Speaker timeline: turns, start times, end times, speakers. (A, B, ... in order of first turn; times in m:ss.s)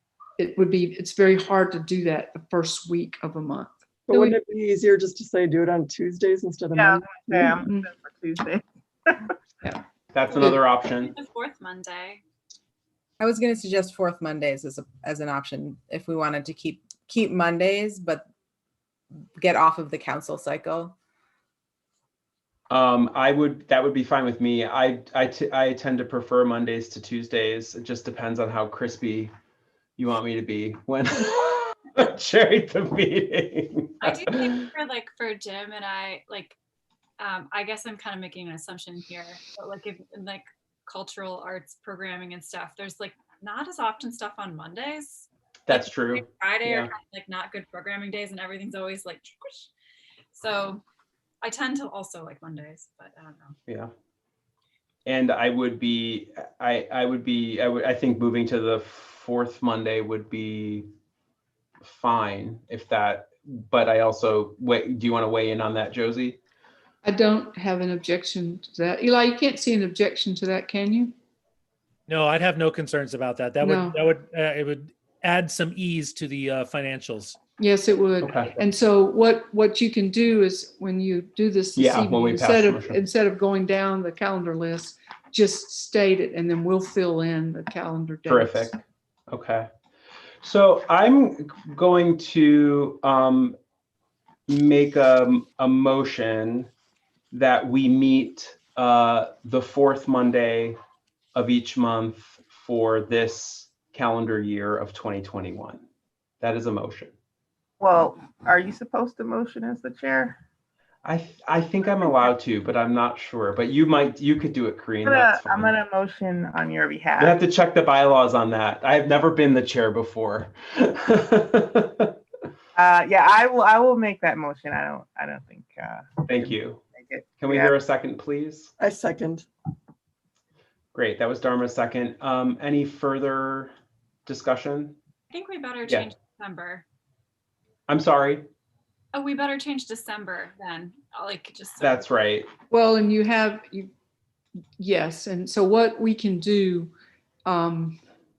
0:00.4-0:04.4 A
0:04.1-0:07.6 B
0:06.8-0:09.3 C
0:10.1-0:11.1 D
0:10.3-0:12.2 E
0:13.2-0:18.2 F
0:19.4-0:21.0 F
0:22.7-0:29.3 D
0:30.0-0:34.6 D
0:34.0-0:36.6 E
0:37.2-0:49.7 E
0:45.7-0:46.9 D
0:50.3-0:50.8 E
0:51.4-0:53.6 E
0:55.0-1:00.8 D
1:01.8-1:06.4 D
1:07.0-1:11.1 A
1:12.1-1:17.4 G
1:13.6-1:14.0 A
1:17.6-1:28.8 A
1:18.2-1:18.6 D
1:21.8-1:23.0 D
1:28.3-1:29.7 D
1:30.4-1:33.6 D
1:34.5-1:36.7 D
1:37.3-1:40.8 D
1:41.3-1:45.8 D
1:46.4-1:47.1 D
1:47.8-1:50.4 C
1:51.0-1:55.8 D
1:55.0-1:57.4 C
1:57.2-2:02.2 D
2:02.8-2:07.8 C
2:06.3-2:06.8 D
2:07.4-2:08.7 D
2:08.8-2:09.5 B
2:10.9-2:13.7 D
2:14.3-2:15.0 D
2:15.3-2:16.8 E
2:17.9-2:18.5 D
2:19.1-2:22.0 E
2:21.8-2:22.5 D
2:22.7-2:23.9 A
2:24.8-2:26.9 A
2:27.5-2:28.0 A